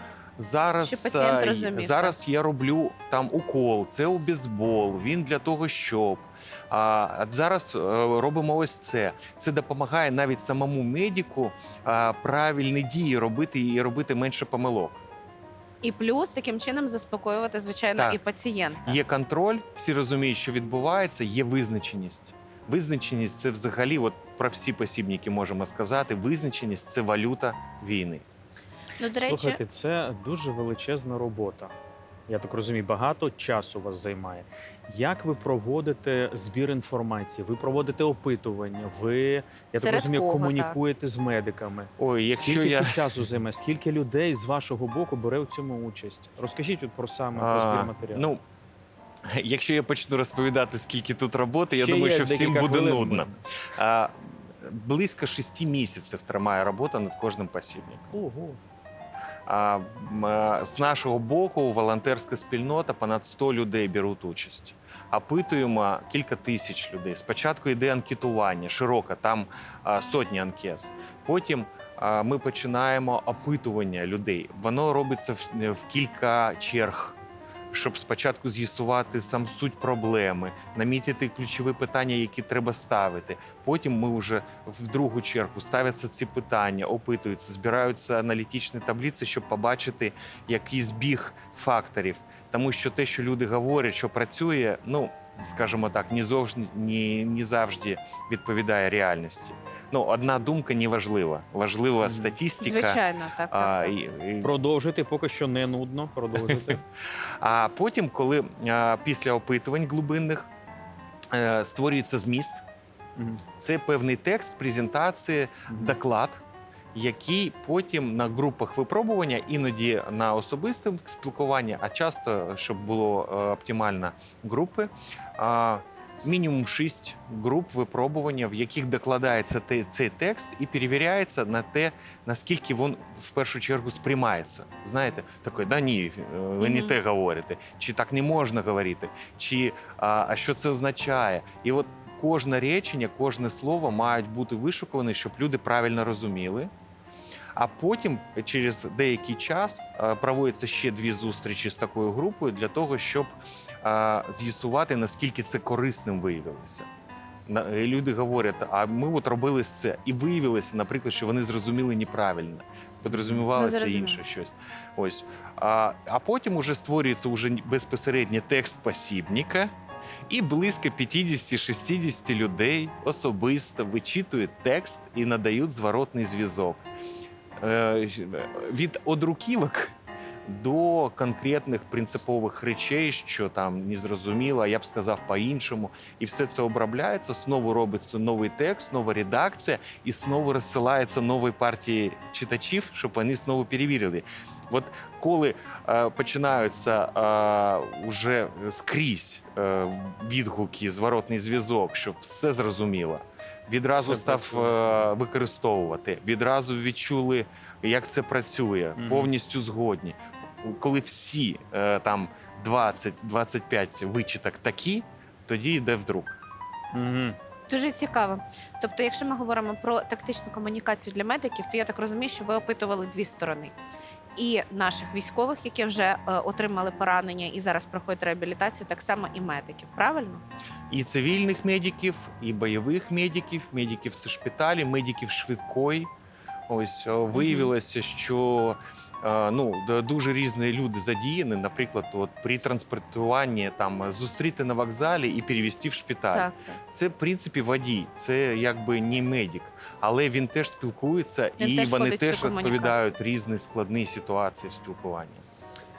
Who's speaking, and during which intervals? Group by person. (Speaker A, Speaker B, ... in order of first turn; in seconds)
Speaker A: 0.4-15.0, 18.8-28.2, 42.0-43.0, 47.3-48.4, 49.3-58.1, 59.5-77.2, 77.7-104.5, 106.4-106.8, 107.4-110.5, 111.3-112.6, 113.6-116.4, 116.9-146.7, 147.6-153.3, 153.8-156.9, 157.4-169.7, 170.3-176.8, 177.6-179.9, 180.5-216.4, 230.9-236.1, 236.7-255.4
Speaker B: 0.8-2.1, 15.8-19.0, 29.0-29.6, 39.8-40.8, 102.6-103.9, 136.6-136.9, 163.5-164.2, 217.7-223.7, 224.3-230.4, 237.3-237.7, 246.3-246.8, 251.6-253.1
Speaker C: 29.2-31.7, 32.3-48.3, 51.7-53.4, 58.1-58.6, 102.0-102.3, 104.4-106.8, 113.2-113.4, 115.7-116.0, 163.1-163.4, 204.0-204.9, 209.0-209.3, 216.9-217.3